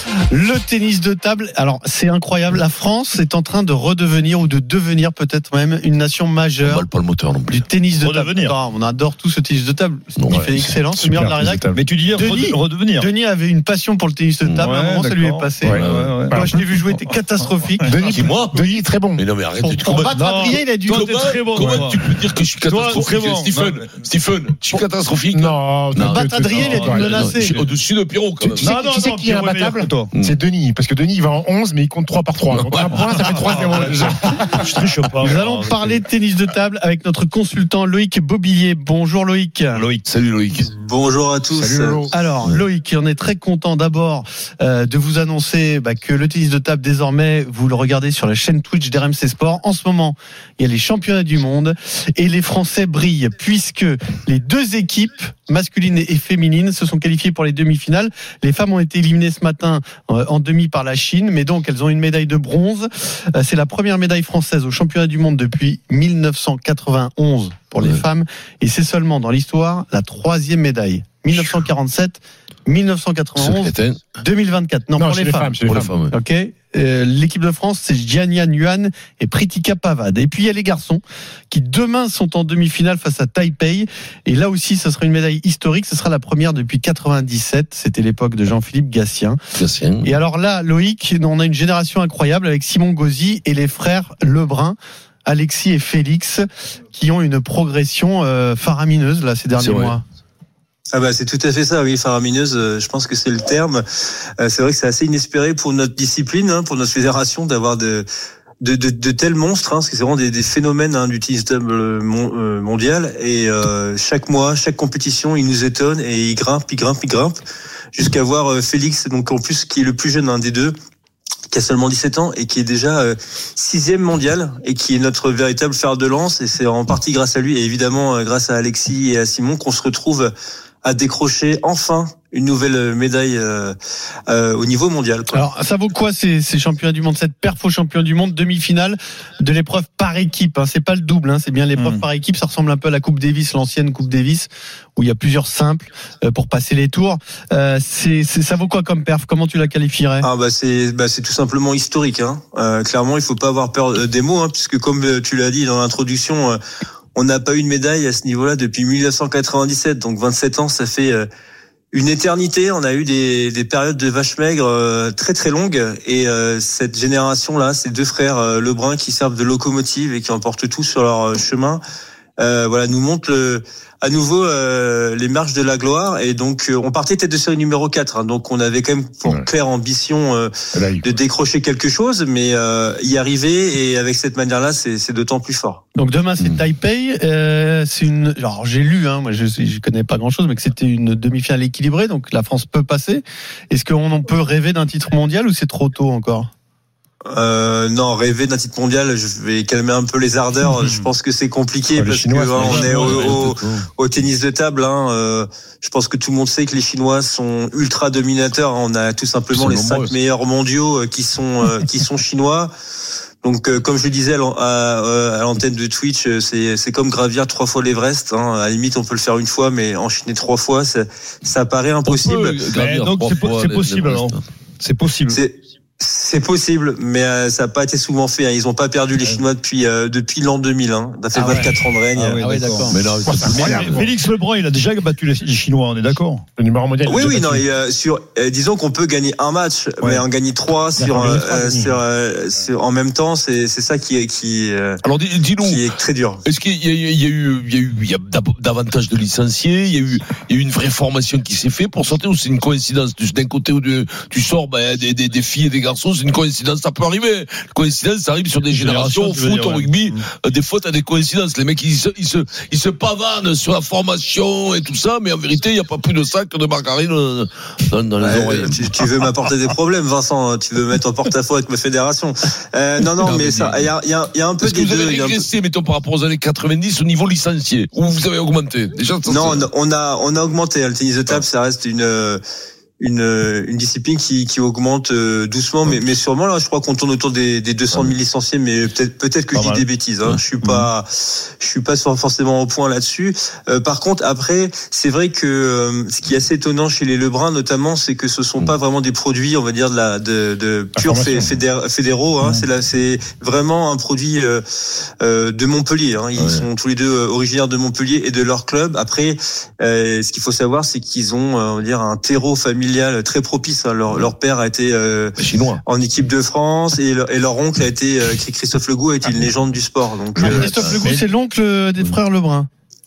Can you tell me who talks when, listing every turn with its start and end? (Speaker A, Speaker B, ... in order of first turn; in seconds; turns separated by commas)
Speaker A: 0.3-6.8, Speaker B: 6.6-7.6, Speaker A: 7.5-17.9, Speaker C: 8.0-8.6, Speaker B: 10.2-10.7, Speaker D: 10.9-11.8, Speaker C: 11.7-13.1, Speaker C: 14.6-16.5, Speaker D: 15.6-16.6, Speaker B: 15.7-16.1, Speaker D: 17.8-19.2, Speaker B: 18.1-18.6, Speaker B: 19.1-20.2, Speaker A: 19.6-21.2, Speaker C: 20.1-22.1, Speaker B: 20.8-28.7, Speaker C: 22.6-23.9, Speaker D: 25.3-27.3, Speaker A: 26.1-27.5, Speaker C: 26.5-27.7, Speaker C: 28.5-30.1, Speaker D: 28.6-34.7, Speaker B: 32.5-33.5, Speaker C: 33.2-36.0, Speaker A: 35.2-39.8, Speaker C: 39.7-40.0, Speaker B: 40.1-40.7, Speaker E: 40.7-42.1, Speaker D: 41.5-42.1, Speaker A: 42.1-75.5, Speaker B: 73.4-74.0, Speaker D: 75.0-75.9, Speaker B: 75.6-76.1, Speaker A: 76.1-89.4, Speaker B: 89.5-90.1, Speaker A: 90.0-100.0, Speaker B: 99.6-100.0, Speaker E: 100.9-103.8, Speaker E: 104.4-108.1, Speaker E: 108.6-117.4, Speaker E: 117.9-120.7, Speaker E: 121.5-130.3, Speaker E: 130.8-133.8, Speaker E: 134.3-135.4, Speaker A: 135.3-150.3, Speaker C: 141.8-142.0, Speaker E: 150.2-156.6, Speaker E: 157.1-161.3, Speaker E: 161.9-171.8, Speaker E: 172.4-185.8, Speaker D: 180.7-181.1, Speaker A: 185.9-196.5, Speaker E: 197.3-212.7, Speaker D: 201.9-203.5, Speaker C: 202.6-203.3, Speaker B: 202.6-203.9, Speaker B: 209.5-210.1, Speaker E: 213.4-222.6, Speaker B: 222.1-224.4, Speaker C: 222.7-225.4, Speaker E: 225.3-232.6, Speaker A: 231.3-231.7, Speaker C: 232.1-236.4, Speaker A: 232.4-233.0, Speaker B: 232.9-234.0, Speaker D: 233.2-234.1, Speaker D: 236.6-237.6, Speaker E: 237.1-245.0, Speaker D: 241.0-242.0, Speaker B: 245.0-268.9, Speaker E: 245.6-246.4, Speaker C: 258.7-260.2, Speaker E: 268.2-275.5, Speaker B: 273.2-273.9, Speaker B: 274.6-279.7, Speaker E: 279.2-282.4, Speaker E: 283.0-304.6, Speaker C: 289.5-289.8, Speaker C: 290.6-290.9, Speaker D: 300.9-301.5, Speaker E: 305.2-320.9, Speaker B: 306.4-306.7, Speaker B: 315.4-315.8, Speaker A: 320.4-322.7, Speaker B: 320.4-321.0